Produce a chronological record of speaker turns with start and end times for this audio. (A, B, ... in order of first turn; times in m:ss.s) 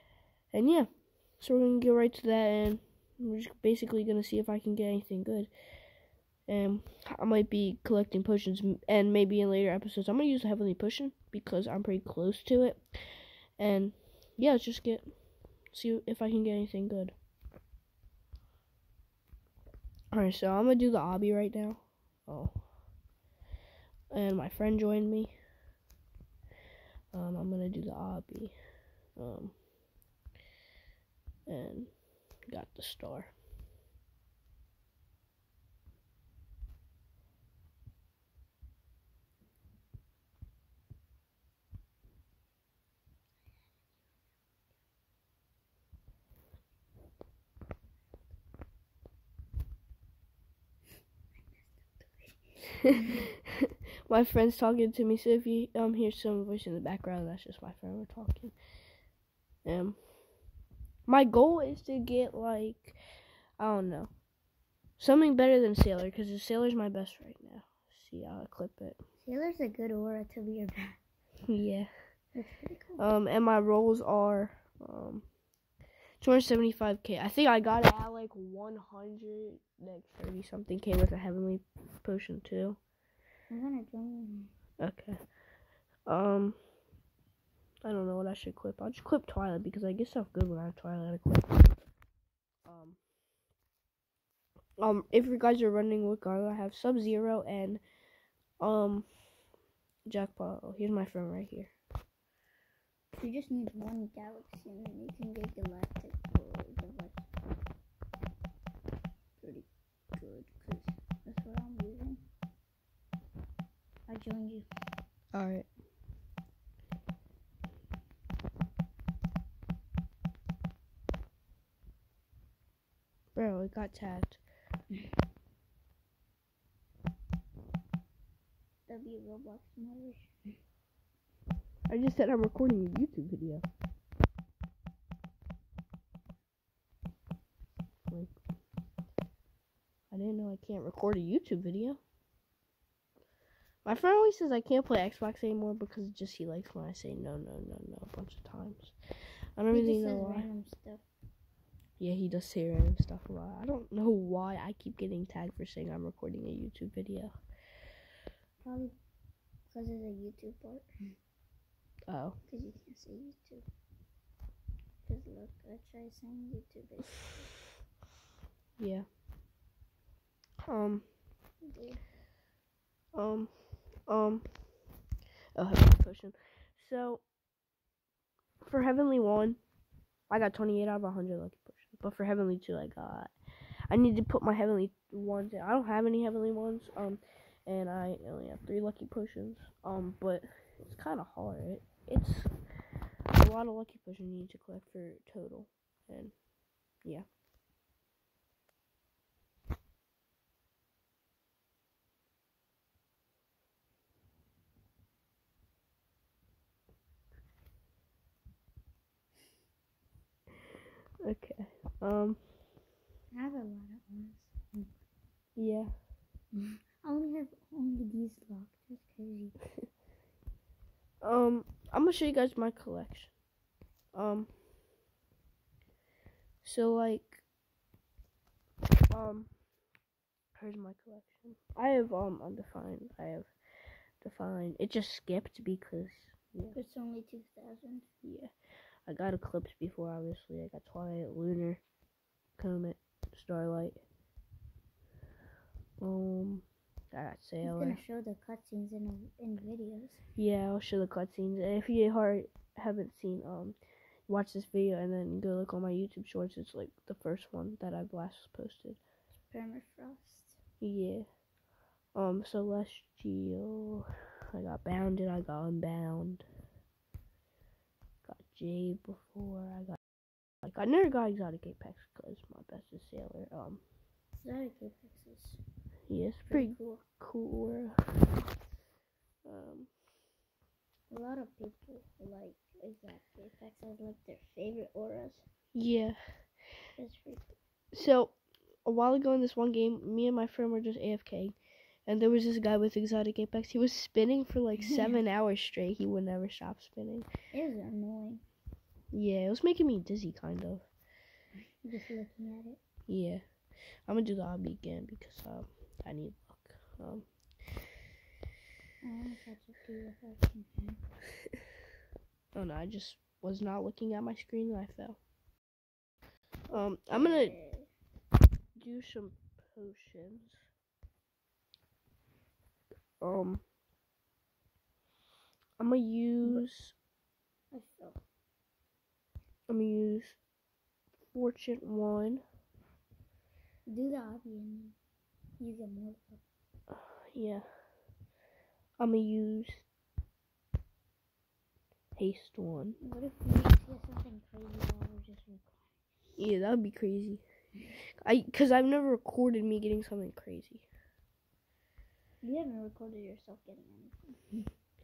0:00.5-0:00.9 A
0:01.4-0:05.5 A
0:06.5-0:12.8 A
0:13.6-0:15.0 A
0:15.7-0:17.1 A
0:20.1-0:22.6 A
0:24.1-0:25.3 A
0:27.1-0:28.5 A
0:29.2-0:29.6 A
0:31.5-0:31.9 A
0:32.5-0:33.3 A
0:51.4-0:52.9 B
0:54.1-0:58.5 A
0:59.6-1:00.0 A
1:01.1-1:03.0 A
1:03.6-1:04.1 A
1:05.0-1:09.0 A
1:09.2-1:11.0 B
1:11.5-1:11.9 A
1:12.3-1:13.0 B
1:13.0-1:15.2 A
1:16.2-1:22.8 A
1:23.5-1:24.5 B
1:24.8-1:25.2 A
1:26.0-1:26.6 A
1:27.8-1:31.7 A
1:32.6-1:33.0 A
1:34.8-1:37.8 A
1:38.6-1:39.1 A
1:40.1-1:41.7 A
1:43.2-1:47.2 B
1:49.4-1:52.2 B
1:54.1-1:54.7 B
1:55.3-1:55.7 A
2:03.3-2:04.4 A
2:08.9-2:10.6 B
2:11.9-2:13.6 A
2:18.1-2:18.3 A
2:20.1-2:22.0 A
2:23.8-2:28.9 A
2:29.6-2:30.5 A
2:29.7-2:31.0 B
2:32.0-2:37.3 A
2:38.6-2:38.9 B
2:39.7-2:40.9 B
2:42.1-2:42.4 A
2:42.5-2:43.6 B
2:45.0-2:47.5 B
2:48.8-2:49.0 A
2:50.6-2:51.0 A
2:51.6-2:52.0 B
2:53.1-2:53.5 A
2:54.1-2:54.4 A
2:55.6-2:57.2 A
2:58.6-2:59.6 A
3:00.3-3:03.3 A
3:03.9-3:12.5 A
3:13.3-3:16.3 A
3:31.2-3:32.4 A
3:33.3-3:34.9 B
3:35.6-3:35.9 A
3:36.6-3:39.6 B
3:41.2-3:43.3 A
3:44.1-3:44.5 A
3:46.6-3:47.4 A
3:49.1-3:49.5 A
3:50.5-3:53.5 A
3:54.2-3:56.8 A
3:56.7-3:58.0 B
3:58.2-3:58.5 A
3:59.1-4:01.8 A
4:02.6-4:04.0 A
4:06.0-4:08.0 A
4:07.6-4:10.2 B
4:10.4-4:13.8 A
4:14.3-4:19.0 A
4:19.5-4:20.6 B
4:20.8-4:21.2 A
4:22.1-4:26.4 A
4:28.2-4:30.0 A
4:30.6-4:33.8 A
4:34.4-4:35.6 B
4:36.1-4:38.0 A
4:36.5-4:37.0 B
4:39.4-4:39.9 A
4:41.1-4:45.4 B
4:45.7-4:46.2 A
4:47.0-4:47.5 B
4:47.9-4:57.3 A
4:57.5-4:58.4 B
4:59.1-5:00.9 A
5:01.8-5:02.8 B
5:03.1-5:03.4 A
5:04.1-5:07.2 A
5:09.0-5:11.0 B
5:12.5-5:15.2 A
5:16.7-5:17.9 B
5:16.7-5:17.5 A
5:18.8-5:20.6 A
5:23.2-5:23.6 A
5:25.8-5:26.9 A
5:27.7-5:28.2 B
5:29.7-5:30.4 A
5:31.3-5:32.4 A
5:33.9-5:35.0 B
5:35.6-5:36.4 B
5:36.9-5:37.6 A
5:39.0-5:39.8 A
5:42.2-5:43.0 A
5:43.0-5:45.9 B
5:46.4-5:47.4 A
5:48.2-5:50.9 A
5:52.4-5:54.7 B